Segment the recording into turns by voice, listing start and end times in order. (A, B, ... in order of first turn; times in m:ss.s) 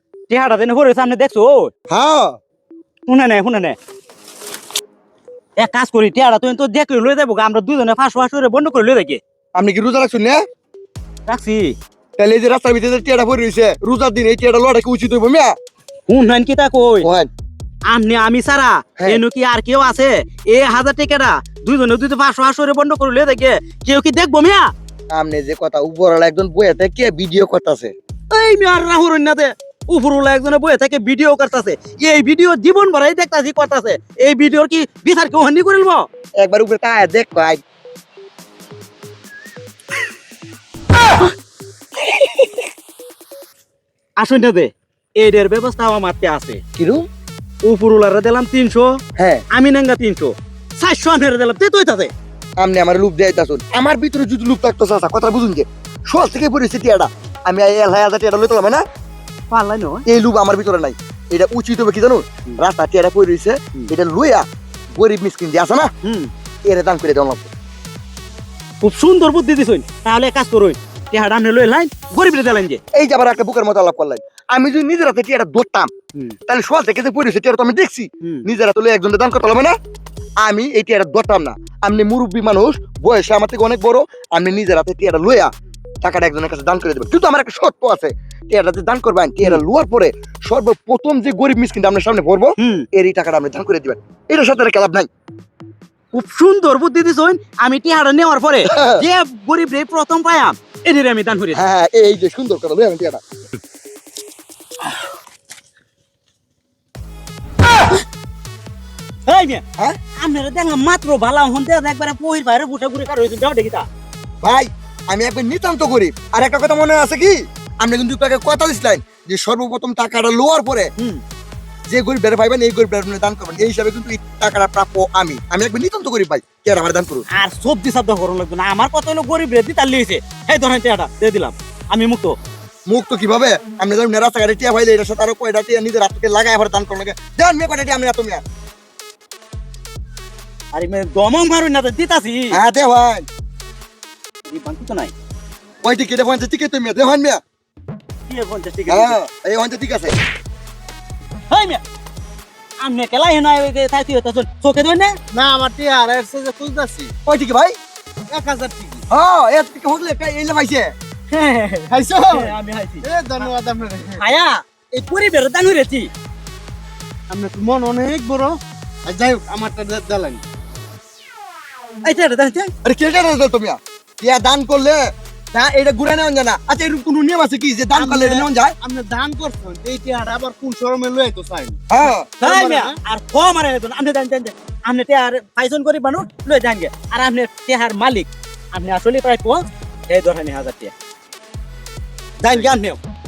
0:00.3-0:01.7 A
0:01.9-0:02.4 B
0:03.1-0:03.8 A
0:05.6-0:09.2 A
0:09.6-0:10.4 B
0:11.3-0:11.8 A
0:12.2-0:15.6 B
0:16.1-0:17.1 A
0:17.0-0:17.3 B
0:17.9-0:24.7 A
0:25.1-0:27.9 B
0:28.3-0:36.1 A
0:36.4-0:37.6 B
0:44.2-0:46.6 A
0:46.8-0:47.1 B
0:47.6-0:49.0 A
0:49.2-0:49.4 B
0:49.5-0:52.1 A
0:52.6-0:58.8 B
0:59.5-1:00.0 A
1:00.1-1:05.9 B
1:06.0-1:06.3 A
1:06.7-1:07.5 B
1:08.8-1:12.8 A
1:12.9-1:15.9 B
1:16.5-1:19.8 B
1:20.4-1:25.5 B
1:26.0-1:35.1 B
1:32.6-1:32.9 A
1:36.1-1:41.6 A
1:38.7-1:39.0 B
1:41.5-1:43.2 B
1:49.2-1:49.6 A
1:50.2-1:53.9 A
1:54.4-2:00.9 B
2:01.9-2:07.3 B
2:07.3-2:12.4 A
2:12.9-2:18.4 B
2:20.7-2:22.6 A
2:22.5-2:23.3 B
2:24.5-2:25.1 A
2:25.8-2:27.4 B
2:28.3-2:29.2 A
2:28.9-2:30.2 B
2:31.5-2:31.8 A
2:32.8-2:35.2 A
2:35.3-2:37.1 C
2:37.2-2:37.8 B
2:38.3-2:39.0 C
2:39.1-2:41.0 B
2:41.3-2:43.5 A
2:41.9-2:44.2 C
2:44.2-2:46.1 A
2:47.3-2:50.4 C
2:52.0-2:52.7 A
2:52.8-2:58.8 B
2:57.9-3:01.8 C
3:01.9-3:02.3 B
3:02.4-3:03.0 C
3:02.4-3:10.9 A
3:12.4-3:13.0 A